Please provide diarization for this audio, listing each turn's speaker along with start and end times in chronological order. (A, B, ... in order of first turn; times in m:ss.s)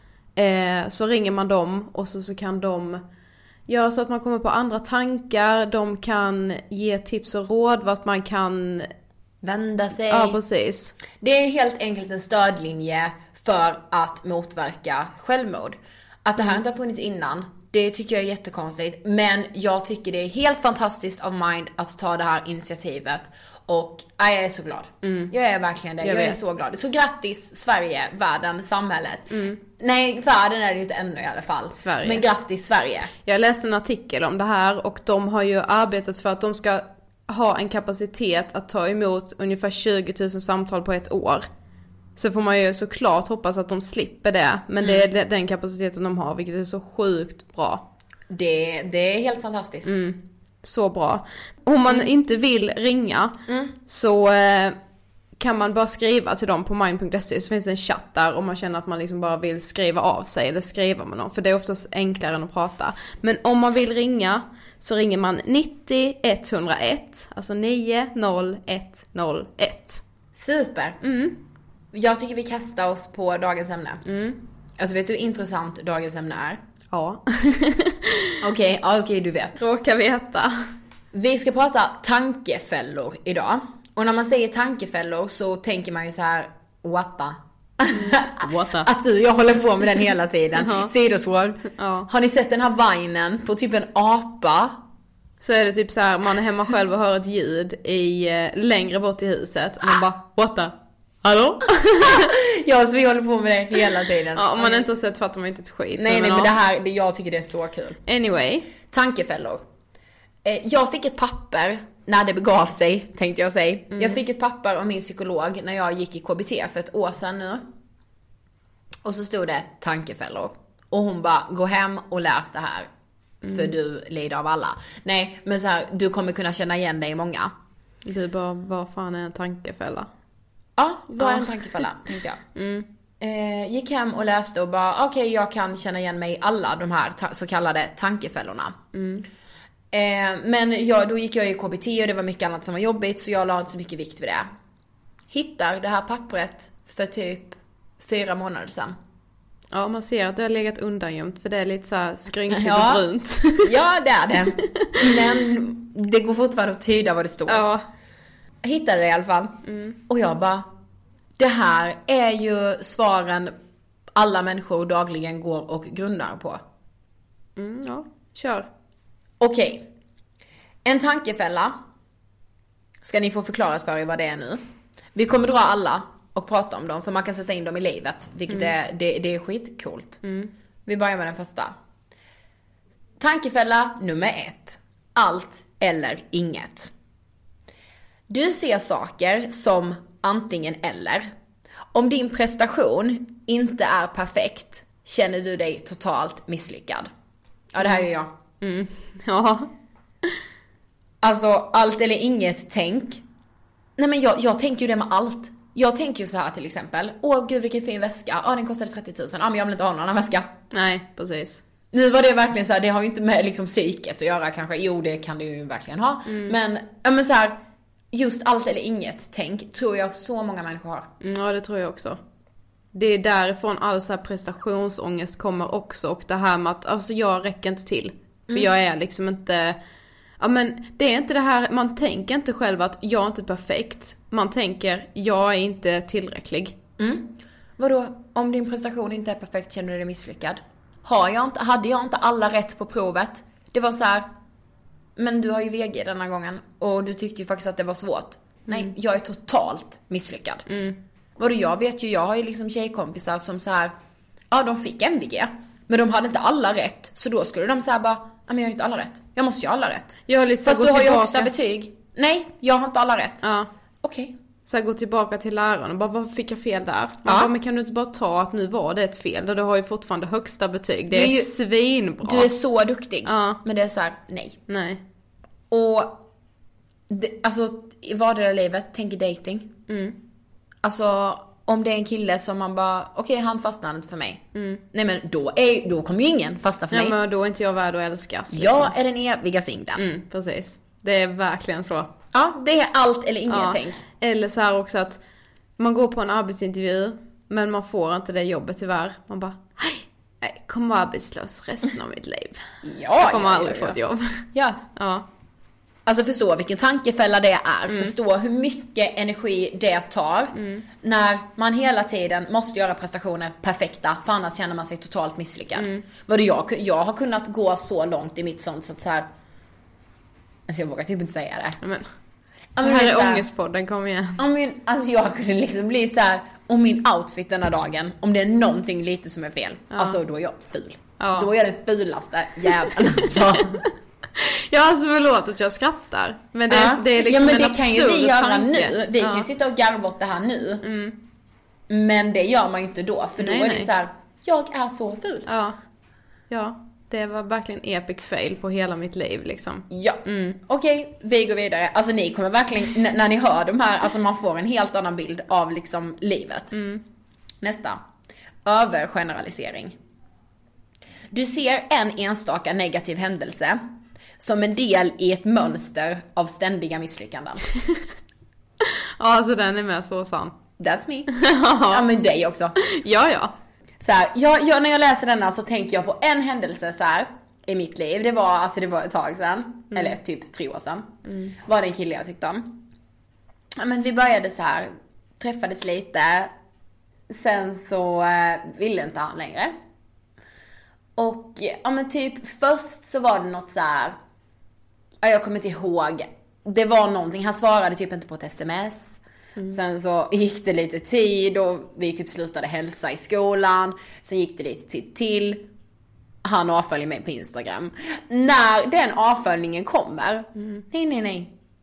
0:00.4-0:03.0 A
0:03.7-0:08.9 A
0:09.4-0:10.4 B
0:10.1-0:11.0 A
0:11.2-0:33.1 B
0:25.0-0:25.3 A
0:26.0-0:26.4 A
0:29.3-0:29.6 A
0:31.7-0:32.2 A
0:33.2-0:41.5 A
0:42.2-0:47.9 A
0:48.3-0:50.0 B
0:49.8-0:54.8 A
0:53.5-0:53.7 B
0:55.4-1:10.0 A
1:10.3-1:11.0 B
1:11.0-1:11.4 A
1:11.9-1:14.0 B
1:14.0-1:14.4 A
1:14.8-1:16.6 B
1:16.9-1:18.4 A
1:18.4-1:19.6 B
1:19.6-1:20.6 A
1:21.1-1:34.8 B
1:27.9-1:28.9 A
1:30.6-1:30.9 A
1:31.7-1:32.1 A
1:35.4-1:42.3 A
1:41.3-1:44.9 B
1:44.4-1:46.5 A
1:46.0-1:48.0 B
1:48.1-1:48.7 A
1:48.9-1:49.6 B
1:50.4-1:57.7 B
1:59.0-2:02.9 B
2:03.4-2:03.7 A
2:03.5-2:07.5 B
2:08.0-2:10.1 A
2:10.8-2:12.4 B
2:11.2-2:11.8 A
2:12.6-2:12.9 A
2:13.2-2:18.8 B
2:18.9-2:19.2 A
2:19.9-2:24.5 B
2:25.3-2:29.0 B
2:29.7-2:33.7 A
2:32.5-2:33.0 B
2:33.6-2:37.7 B
2:37.5-2:37.8 A
2:38.6-2:40.7 B
2:39.7-2:40.0 A
2:41.4-2:43.5 B
2:44.2-2:46.6 B
2:47.6-2:48.7 A
2:49.4-2:49.9 B
2:50.8-2:51.8 B
2:53.0-3:00.2 B
3:00.2-3:00.5 A
3:00.9-3:01.7 B
3:03.2-3:06.9 B
3:08.3-3:11.3 B
3:11.9-3:17.1 B
3:17.7-3:18.3 B
3:18.6-3:19.7 A
3:21.2-3:23.2 B
3:24.0-3:30.5 B
3:30.7-3:31.6 A
3:31.9-3:37.6 B
3:36.3-3:36.6 A
3:38.1-3:41.1 B
3:41.2-3:42.2 A
3:42.9-3:49.8 A
3:50.4-3:56.8 A
3:57.0-4:04.3 B
4:05.2-4:10.6 B
4:10.7-4:11.0 A
4:11.4-4:13.9 B
4:14.5-4:23.4 B
4:20.3-4:21.5 A
4:23.4-4:23.7 A
4:24.0-4:24.4 B
4:24.7-4:32.5 A
4:27.3-4:27.5 B
4:31.1-4:31.5 B
4:32.2-4:34.6 B
4:33.2-4:33.6 A
4:34.7-4:35.0 A
4:35.7-4:36.2 B
4:37.1-4:39.8 B
4:39.9-4:40.2 A
4:40.8-4:47.2 B
4:44.6-4:44.8 A
4:46.9-4:48.9 A
4:48.5-4:50.0 B
4:50.0-4:52.1 A
4:52.3-4:54.0 B
4:53.5-4:55.2 A
4:55.8-5:02.6 A
5:02.8-5:04.0 B
5:03.2-5:05.3 A
5:04.5-5:04.8 B
5:06.1-5:19.3 B
5:07.9-5:08.2 A
5:10.6-5:10.8 A
5:15.8-5:16.0 A
5:20.7-5:21.8 B
5:21.8-5:22.1 A
5:22.8-5:23.4 B
5:22.8-5:24.4 A
5:24.4-5:33.9 B
5:29.9-5:30.2 A
5:31.2-5:31.5 A
5:34.4-5:39.5 A
5:36.7-5:40.8 B
5:40.8-5:41.2 A
5:41.9-5:45.5 B
5:43.4-5:43.9 A
5:45.5-5:45.8 A
5:46.5-5:50.6 A
5:49.9-5:56.8 B
5:56.7-5:57.0 A
5:57.6-5:58.0 B
5:58.6-6:00.0 B
6:01.3-6:03.8 B
6:04.4-6:07.6 B
6:08.8-6:10.6 A
6:10.8-6:12.8 B
6:11.3-6:12.0 A
6:12.8-6:13.6 A
6:14.0-6:22.8 B
6:21.3-6:21.6 A
6:23.8-6:26.5 B
6:27.3-6:29.8 B
6:31.2-6:34.2 B
6:35.2-6:39.2 B
6:39.7-6:45.7 B
6:46.4-6:51.5 B